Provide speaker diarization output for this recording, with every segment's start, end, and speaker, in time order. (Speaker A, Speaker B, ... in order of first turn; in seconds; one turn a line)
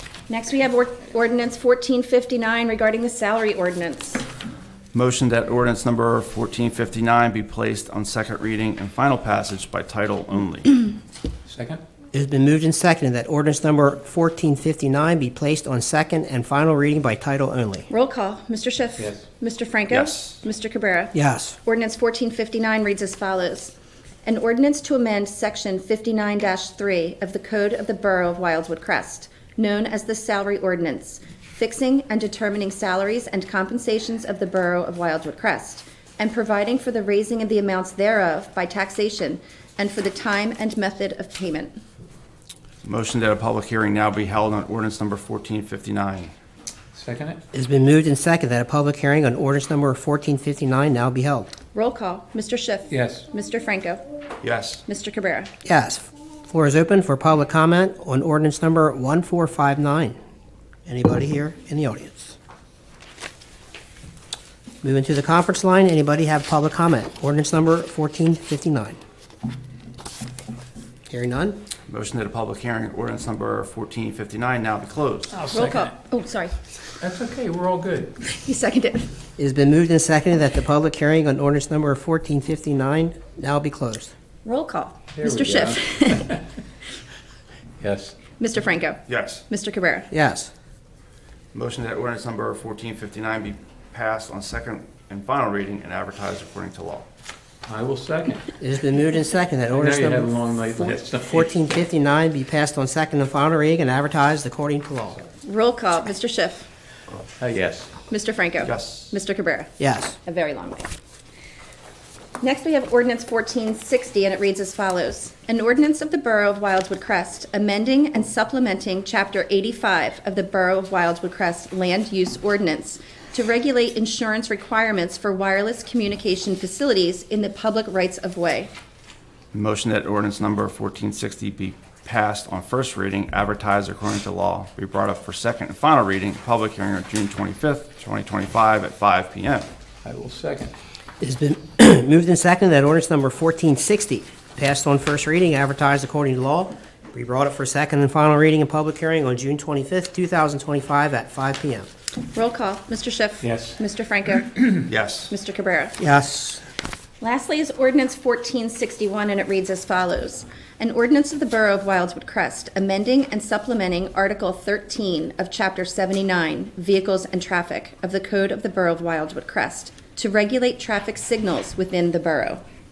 Speaker A: 0.3-4.2
Speaker B: 4.9-10.8
Speaker C: 11.4-11.8
Speaker D: 12.1-17.9
Speaker A: 17.9-21.1
Speaker C: 19.0-19.2
Speaker B: 19.9-20.4
Speaker D: 21.1-21.6
Speaker A: 21.6-23.7
Speaker A: 24.2-41.7
Speaker B: 42.8-46.3
Speaker C: 46.9-47.4
Speaker D: 47.5-51.5
Speaker A: 51.7-54.0
Speaker C: 52.9-53.3
Speaker B: 54.4-54.8
Speaker A: 54.9-55.5
Speaker D: 55.6-60.1
Speaker D: 60.9-62.4
Speaker D: 64.8-69.0
Speaker D: 71.1-71.6
Speaker B: 71.9-75.3
Speaker C: 75.3-75.9
Speaker A: 75.5-76.5
Speaker C: 77.0-78.2
Speaker A: 78.2-79.1
Speaker D: 79.4-84.1
Speaker A: 84.4-86.4
Speaker C: 85.2-86.4
Speaker C: 87.8-88.2
Speaker A: 88.4-90.1
Speaker B: 89.1-89.4
Speaker D: 90.1-90.5
Speaker B: 91.5-97.0
Speaker C: 97.7-98.5
Speaker D: 98.6-105.2
Speaker C: 99.7-101.5
Speaker A: 105.4-106.7
Speaker C: 107.4-107.9
Speaker A: 108.1-109.7
Speaker B: 108.6-109.1
Speaker D: 109.8-110.2
Speaker A: 110.2-110.9
Speaker A: 112.4-128.7
Speaker B: 129.5-139.7
Speaker C: 140.0-140.7
Speaker D: 141.2-151.9
Speaker A: 152.3-154.5
Speaker C: 153.4-153.8
Speaker B: 154.9-155.3
Speaker A: 155.3-156.0
Speaker D: 156.0-156.6
Speaker A: 157.2-172.6